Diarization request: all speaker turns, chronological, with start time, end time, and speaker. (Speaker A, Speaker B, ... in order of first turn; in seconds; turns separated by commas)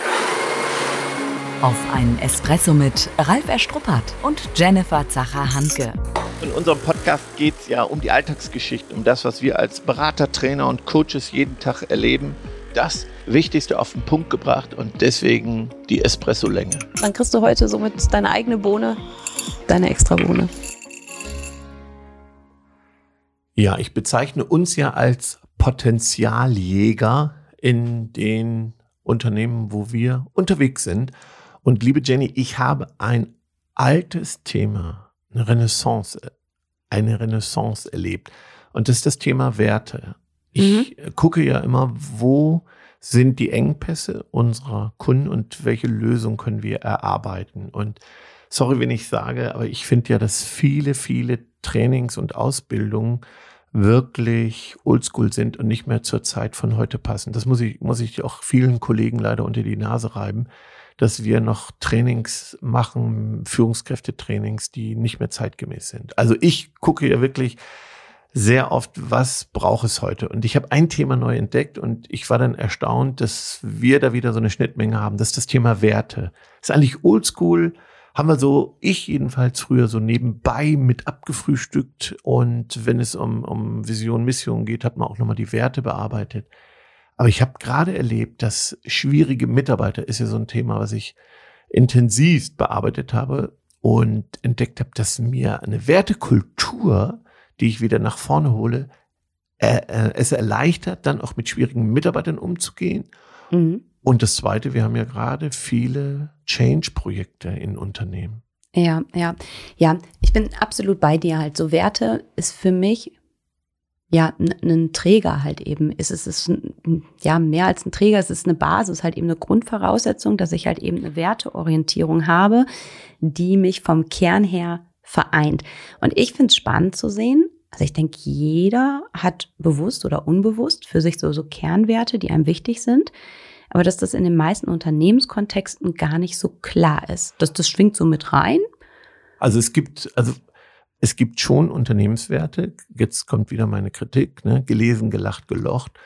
Speaker A: 1.6-6.0, Speaker B: 6.4-16.9, Speaker C: 17.0-19.0, Speaker C: 19.7-20.5, Speaker B: 23.6-36.3, Speaker B: 36.9-60.5, Speaker C: 40.6-40.9, Speaker B: 61.0-67.6, Speaker B: 68.3-86.5, Speaker B: 87.2-91.2, Speaker B: 91.7-98.9, Speaker B: 99.6-103.1, Speaker C: 103.5-103.8, Speaker B: 104.0-108.4, Speaker C: 108.7-113.1, Speaker C: 114.1-122.7, Speaker C: 123.2-133.1, Speaker C: 133.7-138.6, Speaker B: 139.4-140.4, Speaker B: 141.0-146.0